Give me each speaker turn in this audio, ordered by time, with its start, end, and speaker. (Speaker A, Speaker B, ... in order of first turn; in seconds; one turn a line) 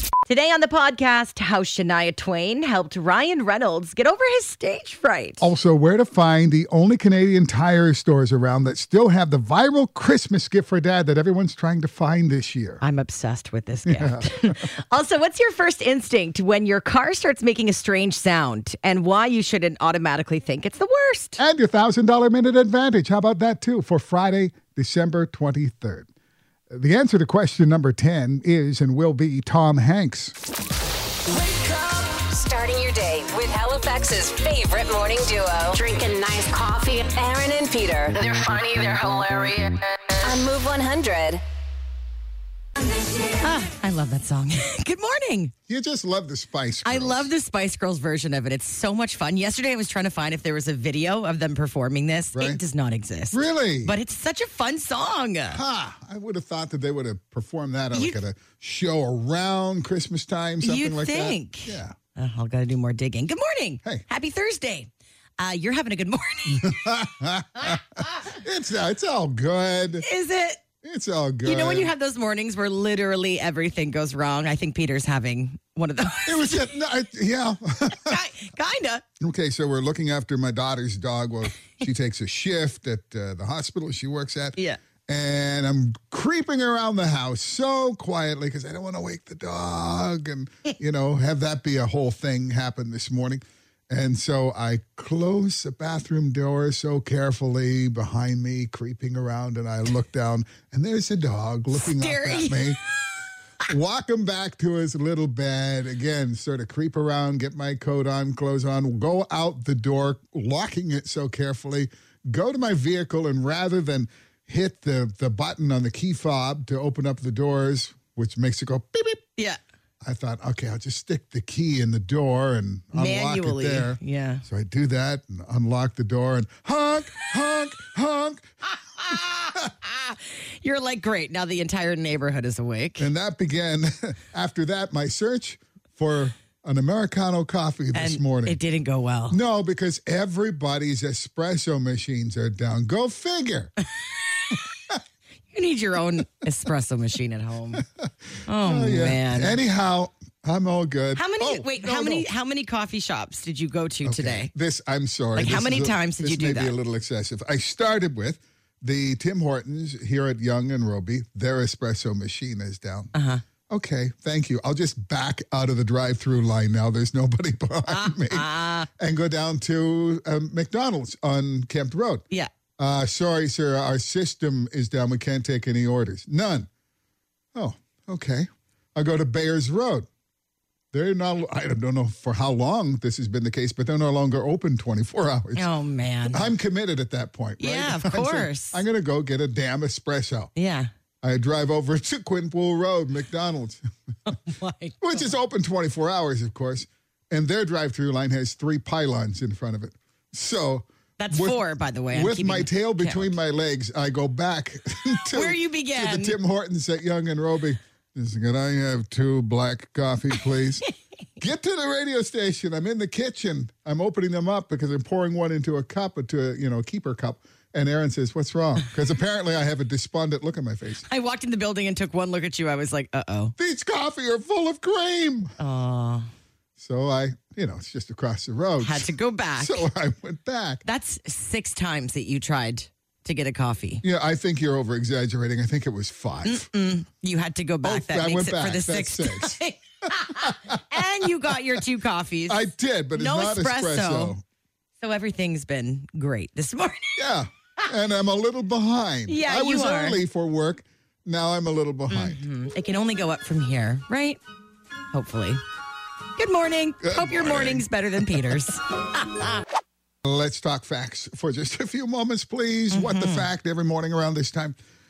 Speaker A: 0.3-5.5
Speaker B: 5.4-12.8
Speaker A: 12.8-21.4
Speaker B: 13.8-14.6
Speaker B: 21.4-26.1
Speaker B: 26.7-30.4
Speaker C: 31.3-41.4
Speaker A: 43.4-45.5
Speaker B: 45.7-47.3
Speaker A: 46.8-55.6
Speaker B: 52.3-52.6
Speaker B: 53.3-54.0
Speaker B: 55.5-62.0
Speaker A: 57.9-58.2
Speaker A: 60.6-66.8
Speaker B: 66.5-70.0
Speaker A: 70.0-70.6
Speaker B: 70.8-71.9
Speaker A: 71.4-76.7
Speaker B: 76.2-78.2
Speaker A: 78.0-79.0
Speaker B: 79.2-102.8
Speaker A: 101.7-102.8
Speaker B: 103.7-119.2
Speaker B: 120.0-128.5
Speaker A: 122.9-124.4
Speaker A: 129.0-133.1
Speaker B: 129.1-129.6
Speaker B: 133.0-138.6
Speaker A: 137.9-139.4
Speaker B: 139.3-143.7
Speaker A: 145.5-147.8
Speaker B: 147.8-152.3
Speaker A: 148.4-149.6
Speaker A: 151.1-154.5
Speaker B: 154.0-163.1
Speaker A: 155.3-156.7
Speaker A: 163.1-163.4
Speaker B: 163.7-172.2
Speaker A: 167.9-168.9
Speaker B: 172.8-176.7
Speaker B: 177.5-180.1
Speaker B: 180.9-185.7
Speaker A: 185.5-186.5
Speaker B: 186.3-190.5
Speaker A: 187.6-188.8
Speaker A: 190.5-190.9
Speaker B: 191.2-193.9
Speaker A: 194.3-195.1
Speaker B: 195.0-210.8
Speaker A: 201.2-203.3
Speaker A: 205.3-206.4
Speaker B: 211.4-221.1
Speaker A: 221.1-223.5
Speaker B: 223.6-225.5
Speaker A: 225.6-226.3
Speaker B: 226.8-230.8
Speaker A: 228.8-229.8
Speaker A: 230.8-234.0
Speaker B: 234.0-236.7
Speaker A: 236.4-244.3
Speaker B: 237.8-241.0
Speaker B: 242.5-244.4
Speaker A: 245.0-247.2
Speaker B: 247.2-252.4
Speaker A: 249.3-250.2
Speaker A: 252.1-254.4
Speaker A: 255.1-255.6
Speaker A: 256.4-259.6
Speaker B: 257.0-258.5
Speaker B: 260.2-264.8
Speaker A: 262.9-263.5